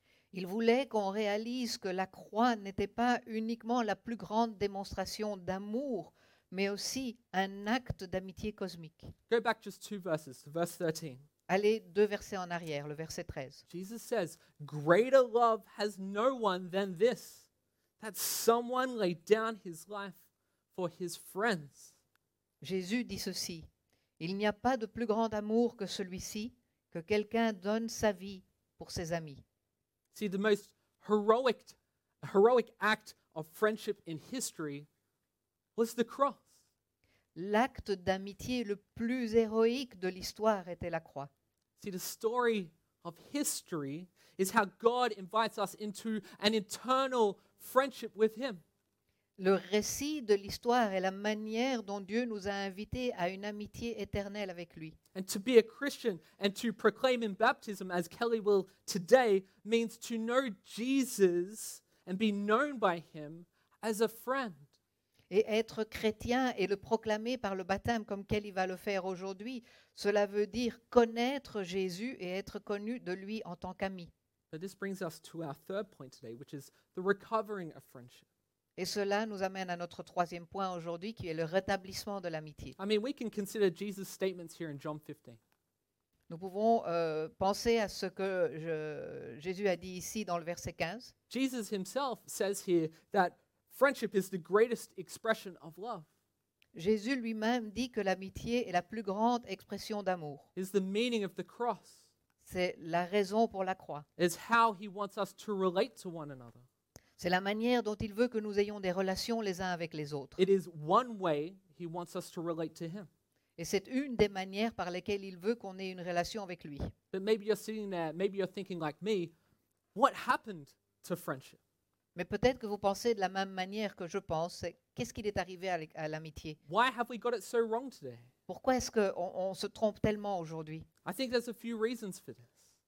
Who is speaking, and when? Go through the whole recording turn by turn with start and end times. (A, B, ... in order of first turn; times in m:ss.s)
0:00.3-0:09.1 A
0:09.3-0:11.2 B
0:11.5-0:13.6 A
0:13.7-0:17.4 B
0:18.0-0:20.2 B
0:20.7-0:21.9 B
0:22.6-0:23.7 A
0:24.2-0:29.4 A
0:30.1-0:34.9 B
0:35.8-0:36.5 B
0:37.3-0:41.3 A
0:41.8-0:48.6 B
0:49.4-0:55.0 A
0:55.1-1:04.7 B
1:05.3-1:14.1 A
1:14.5-1:18.2 B
1:18.8-1:22.8 A
1:22.8-1:25.4 B
1:26.3-1:31.1 A
1:31.3-1:36.1 B
1:36.7-1:40.4 A
1:40.6-1:42.0 B
1:42.4-1:44.0 A
1:44.2-1:46.6 B
1:47.2-1:50.4 A
1:50.4-1:53.1 B
1:53.6-1:56.9 A
1:57.1-1:59.3 B
1:59.9-2:01.6 B
2:02.1-2:06.6 A
2:06.7-2:08.3 B
2:08.5-2:10.9 A
2:11.0-2:12.6 B